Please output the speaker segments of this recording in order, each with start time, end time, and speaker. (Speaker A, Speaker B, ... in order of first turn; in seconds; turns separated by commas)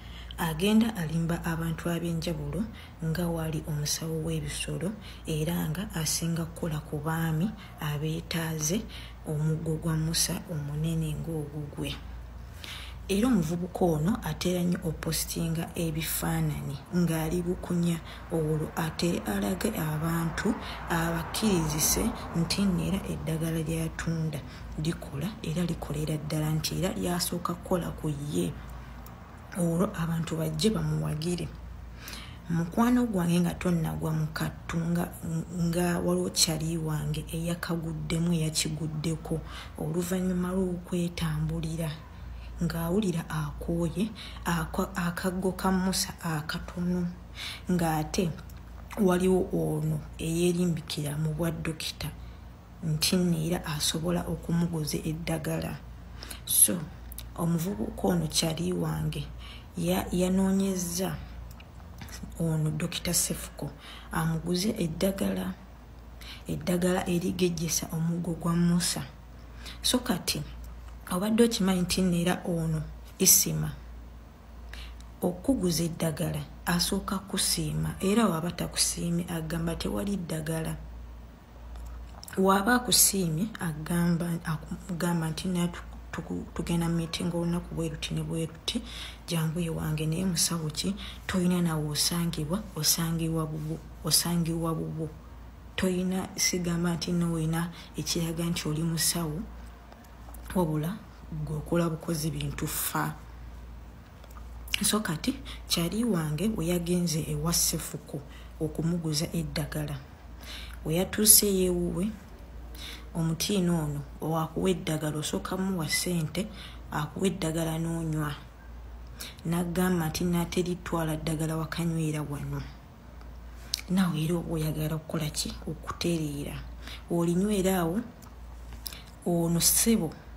Speaker A: 0.4-12.0, Speaker A: 13.1-28.5, Speaker A: 29.6-31.5, Speaker A: 32.5-41.9, Speaker A: 42.6-47.1, Speaker A: 47.7-48.3, Speaker A: 49.0-52.1, Speaker A: 52.8-55.8, Speaker A: 56.5-56.8, Speaker A: 57.4-61.2, Speaker A: 62.4-65.5, Speaker A: 66.5-69.1, Speaker A: 69.8-70.5, Speaker A: 71.1-73.8, Speaker A: 75.2-80.8, Speaker A: 82.4-95.1, Speaker A: 95.8-99.5, Speaker A: 100.5-103.2, Speaker A: 104.8-110.0, Speaker A: 110.8-112.1, Speaker A: 113.1-118.4, Speaker A: 119.5-122.7, Speaker A: 123.9-128.0, Speaker A: 129.3-130.2